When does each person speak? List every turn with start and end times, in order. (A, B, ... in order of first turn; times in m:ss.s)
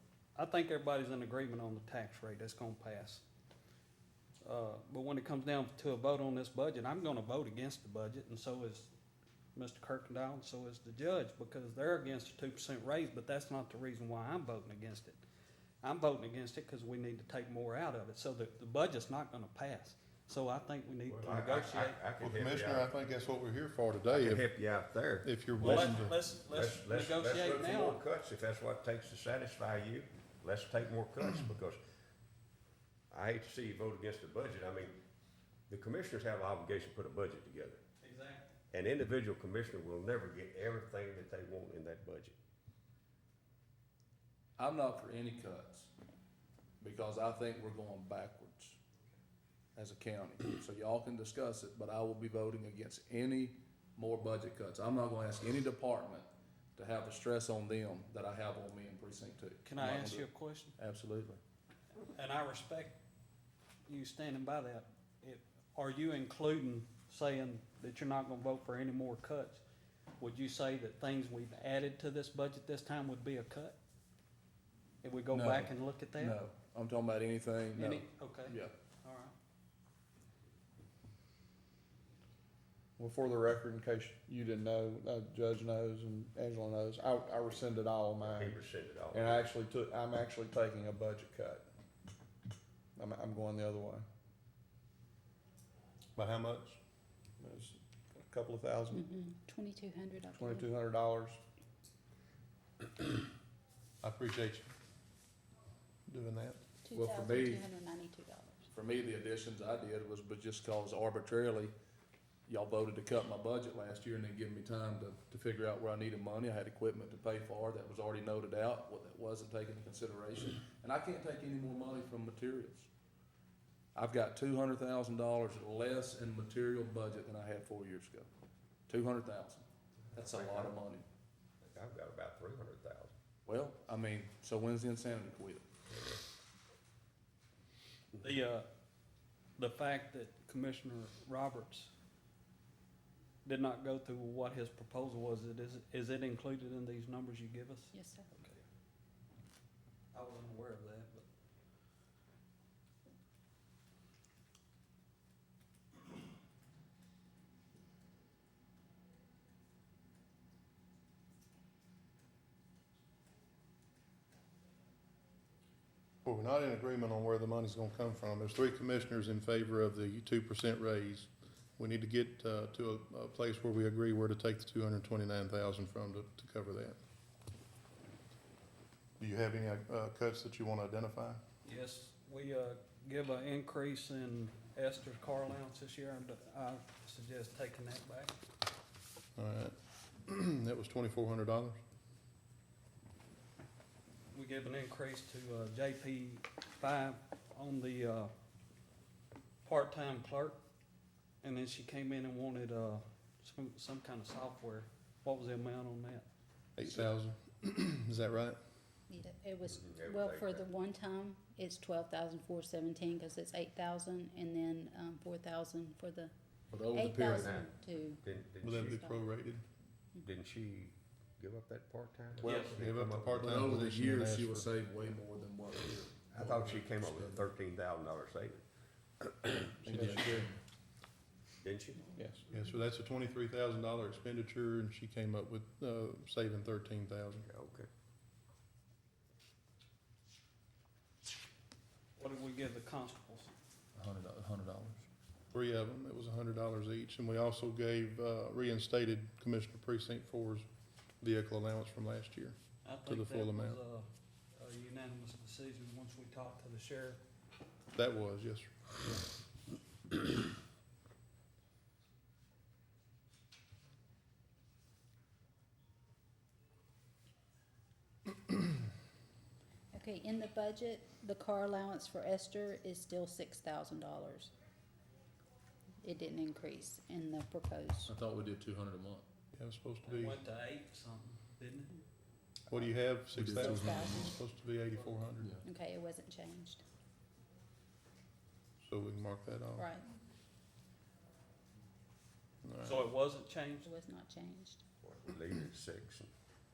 0:00.4-0:03.2 A
0:04.4-0:08.9 A
0:09.5-0:15.2 A
0:15.8-0:22.0 A
0:21.1-0:22.9 B
0:22.2-0:24.4 C
0:24.1-0:25.9 B
0:25.2-0:26.2 C
0:25.6-0:28.0 A
0:26.5-0:31.8 B
0:33.1-0:35.0 B
0:35.7-0:37.8 B
0:38.0-0:38.5 A
0:38.7-0:42.3 B
0:44.6-0:45.9 D
0:46.8-0:48.8 D
0:49.8-1:01.4 D
0:59.6-1:00.7 A
1:02.1-1:03.0 A
1:03.9-1:09.6 A
1:10.2-1:13.8 A
1:15.0-1:16.4 A
1:15.3-1:18.7 D
1:17.8-1:19.3 A
1:23.0-1:28.6 E
1:28.2-1:29.5 B
1:29.1-1:31.6 E
1:33.0-1:34.0 E
1:36.2-1:36.8 C
1:37.4-1:39.0 E
1:38.9-1:40.7 F
1:40.3-1:41.4 E
1:44.0-1:44.7 C
1:46.1-1:46.6 C
1:46.8-1:48.7 F
1:46.9-1:47.6 D
1:48.7-1:51.7 D
1:52.5-2:02.9 D
2:03.9-2:08.3 D
2:08.9-2:11.0 D
2:10.2-2:10.8 B
2:11.7-2:13.1 B
2:13.4-2:15.7 D
2:18.2-2:18.6 A
2:19.6-2:21.9 A
2:23.4-2:28.6 A
2:27.9-2:28.3 F
2:30.1-2:31.2 A
2:46.2-2:57.0 C
2:59.2-3:01.4 C
3:01.6-3:08.3 A
3:09.4-3:11.8 C
3:14.3-3:18.3 A
3:19.6-3:20.6 A
3:21.4-3:26.2 A
3:26.8-3:28.6 C
3:29.1-3:36.3 F
3:29.7-3:30.7 B
3:36.7-3:37.6 D
3:36.9-3:38.3 F
3:37.4-3:39.0 B
3:38.6-3:39.6 C
3:38.8-3:39.2 F
3:40.2-3:43.8 B
3:42.4-3:42.8 A
3:42.7-3:44.7 C
3:43.4-3:47.5 D
3:46.3-3:48.6 B
3:49.2-3:50.1 B
3:49.8-3:50.6 D
3:49.8-3:50.5 C
3:51.6-3:52.1 B
3:52.2-3:52.4 D
3:52.5-3:57.5 C
3:57.5-3:57.9 B
4:02.2-4:03.5 A
4:03.9-4:05.0 D
4:05.5-4:10.6 C
4:11.2-4:13.8 C
4:12.8-4:17.2 A
4:17.9-4:18.9 C
4:29.9-4:34.5 F
4:36.0-4:38.1 F
4:38.0-4:39.2 D
4:39.5-4:40.4 C
4:40.1-4:41.9 A
4:42.7-4:45.5 C
4:43.3-4:44.4 D
4:43.5-4:44.3 F
4:44.9-4:45.2 A
4:45.6-4:46.8 F
4:48.8-4:49.9 C
4:49.8-4:50.0 F
4:52.6-4:53.0 C
4:52.8-4:53.9 A
4:53.8-4:54.8 F
4:55.0-4:56.3 B